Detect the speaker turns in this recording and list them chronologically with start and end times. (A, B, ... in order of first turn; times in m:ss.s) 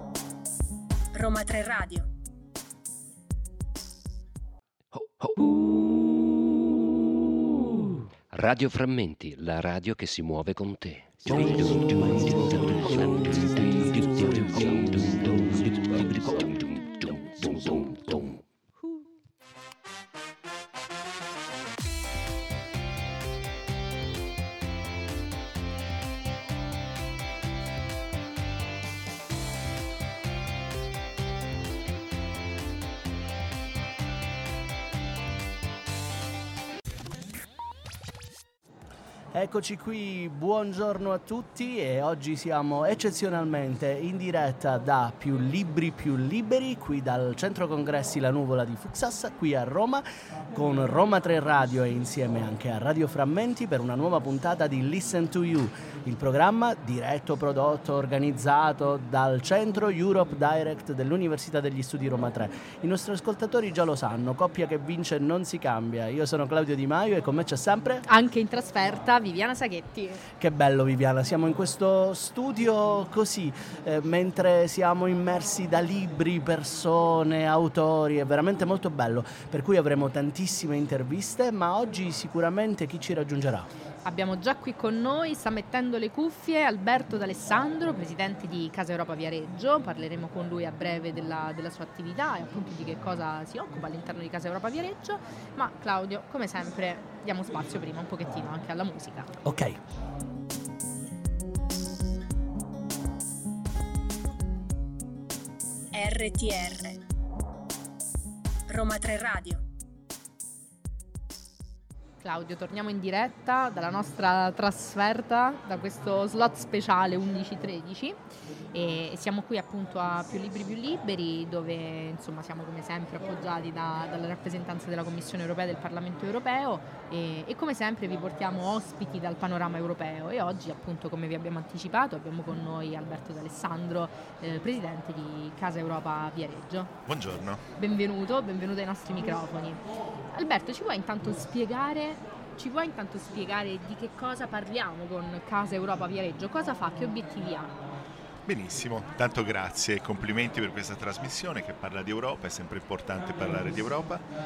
0:01.1-0:02.1 A
0:04.9-0:05.4 B
0:08.3-0:18.4 B
0:39.3-1:08.0 C
1:08.1-1:10.2 D
1:10.4-1:23.7 C
1:24.0-1:39.3 D
1:39.4-1:39.8 C
1:45.9-1:47.0 A
1:48.7-1:49.6 A
1:52.2-1:58.2 D
1:58.7-2:16.9 D
2:17.0-2:17.6 E
2:17.8-2:19.8 D
2:20.3-2:27.7 D
2:28.4-2:34.2 E